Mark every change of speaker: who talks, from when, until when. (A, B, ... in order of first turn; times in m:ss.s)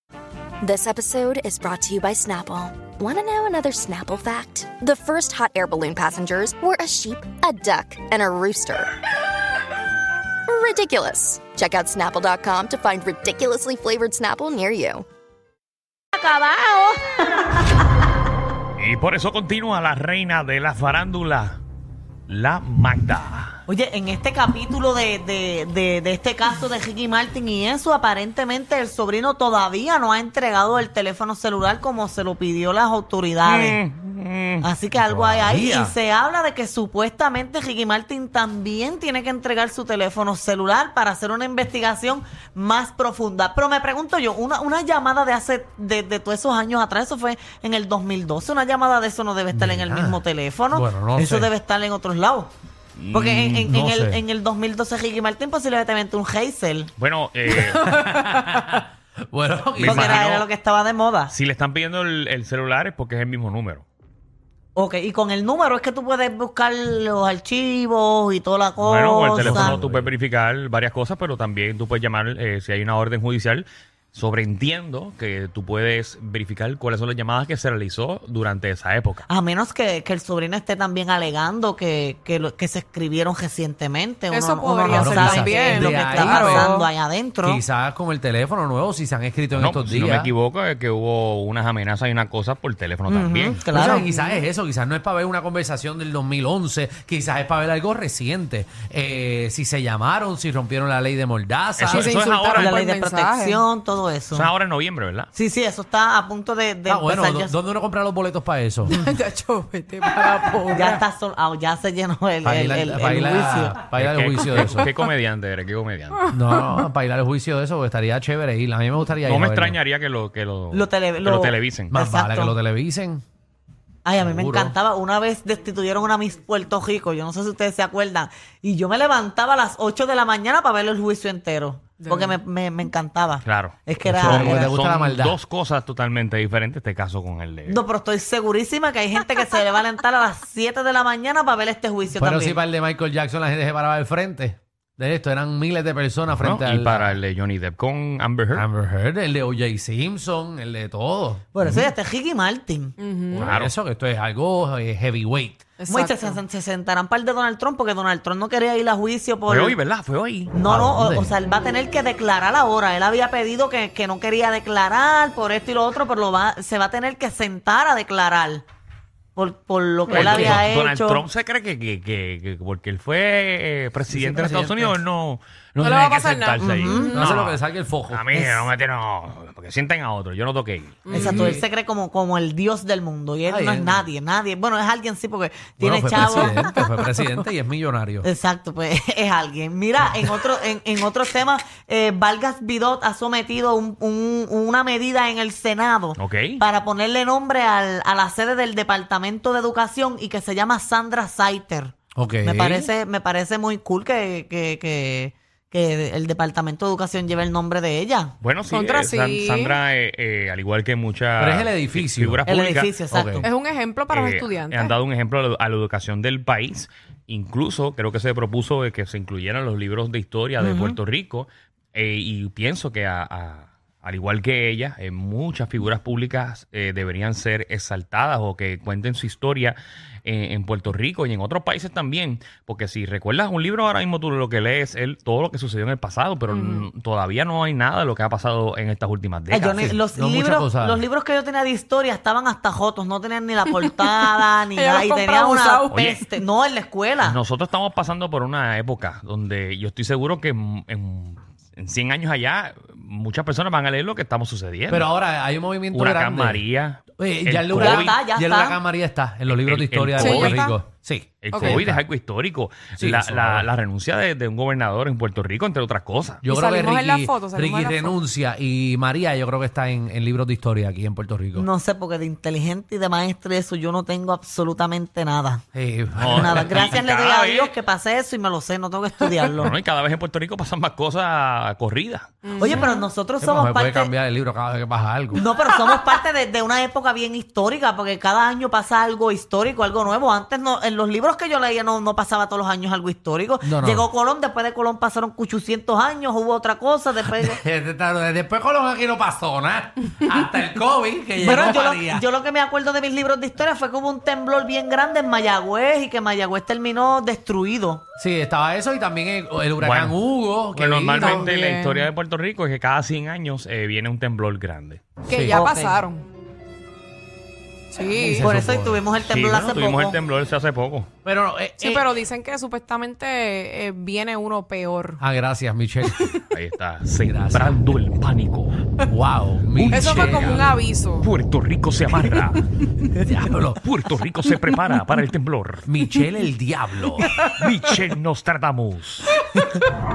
0:00.6-0:08.9 A
0:10.5-0:15.0 A
0:16.1-0:17.0 B
0:18.8-0:21.6 C
0:22.3-0:23.6 C
0:23.7-0:33.8 B
0:33.4-0:34.7 C
0:34.6-0:52.5 B
0:35.0-0:36.0 D
0:49.5-0:51.5 D
0:53.0-0:53.7 C
0:53.1-0:56.9 B
0:53.7-0:54.2 D
0:57.0-0:57.9 C
0:57.5-1:00.2 D
0:59.7-1:00.5 C
0:59.8-1:01.3 B
1:01.3-1:03.8 C
1:04.8-1:09.8 B
1:08.8-1:19.3 C
1:09.4-1:10.1 D
1:19.3-1:27.6 B
1:24.3-1:26.9 E
1:24.9-1:26.8 D
1:27.4-1:30.3 D
1:29.5-1:33.9 C
1:33.1-1:34.0 B
1:33.7-1:42.2 D
1:34.0-1:34.4 E
1:41.8-1:42.8 C
1:41.9-1:43.7 E
1:42.5-1:44.5 B
1:44.3-1:45.3 C
1:45.3-1:47.5 B
1:46.9-1:49.0 D
1:48.9-1:51.0 E
1:50.7-1:53.8 B
1:52.4-1:54.9 D
1:53.9-1:56.3 C
1:56.3-1:59.8 D
1:59.2-2:01.9 C
2:00.7-2:02.6 B
2:01.9-2:03.2 D
2:04.0-2:14.7 B
2:04.2-2:04.8 D
2:12.0-2:12.4 E
2:13.4-2:17.8 C
2:14.0-2:15.4 D
2:17.7-2:22.6 B
2:22.2-2:27.2 D
2:26.4-2:28.7 C
2:28.5-2:31.8 D
2:31.6-2:33.0 B
2:33.0-2:33.5 E
2:33.3-2:35.7 D
2:33.4-2:33.7 C
2:35.8-2:36.4 E
2:35.9-2:39.8 B
2:39.5-2:40.5 C
2:40.5-2:48.6 B
2:40.6-2:41.3 D
2:49.4-2:51.2 B
2:50.1-2:50.7 D
2:50.1-3:01.3 C
2:54.1-2:55.0 D
2:55.8-2:57.4 E
2:56.6-2:57.1 B
2:57.1-2:58.7 D
3:01.1-3:01.6 E
3:01.1-3:01.6 D
3:01.1-3:06.7 B
3:03.5-3:04.1 D
3:05.8-3:08.3 D
3:06.3-3:07.4 E
3:08.2-3:28.3 B
3:16.2-3:16.6 C
3:22.2-3:22.9 D
3:28.4-3:32.9 C
3:28.7-3:29.8 E
3:31.4-3:32.4 D
3:32.5-3:33.5 B
3:33.1-3:33.4 D
3:33.4-3:35.0 E
3:34.1-4:00.0 C
3:40.6-3:41.0 B
3:56.5-3:56.9 E
3:59.5-4:07.4 B
3:59.8-4:01.0 D
4:03.7-4:06.4 E
4:05.9-4:06.2 C
4:07.2-4:15.1 C
4:14.9-4:16.7 D
4:15.9-4:18.2 C
4:17.2-4:22.0 D
4:17.7-4:18.8 B
4:19.5-4:20.6 C
4:20.2-4:20.8 E
4:21.4-4:26.4 C
4:21.5-4:21.8 E
4:23.0-4:23.7 D
4:26.4-4:31.7 D
4:26.5-4:28.2 E
4:31.6-4:35.6 B
4:35.7-4:36.9 D
4:36.2-4:37.7 C
4:36.3-4:39.8 B
4:39.5-4:42.4 C
4:42.4-4:43.1 E
4:42.6-4:44.1 B
4:43.4-4:45.5 D
4:45.4-4:57.6 B
4:53.6-4:54.1 D
4:57.4-5:02.3 D
5:01.4-5:08.0 B
5:08.2-5:11.5 D
5:09.8-5:10.2 C
5:10.7-5:15.1 C
5:11.1-5:12.1 E
5:15.3-5:15.6 D
5:15.3-5:16.2 E
5:15.5-5:16.0 B
5:17.9-5:18.5 E
5:18.1-5:19.0 D
5:18.4-5:20.2 B
5:19.2-5:21.1 C
5:21.2-5:22.1 D
5:21.8-5:25.2 E
5:25.2-5:26.3 D
5:26.1-5:26.4 E
5:26.5-5:28.8 C
5:27.2-5:28.0 D
5:29.1-5:30.6 D
5:29.7-5:32.6 C
5:29.9-5:31.3 E
5:33.1-5:33.9 D
5:33.8-5:35.9 C
5:35.9-5:37.3 D
5:37.2-5:37.9 E
5:37.5-5:39.3 C
5:39.4-5:39.8 E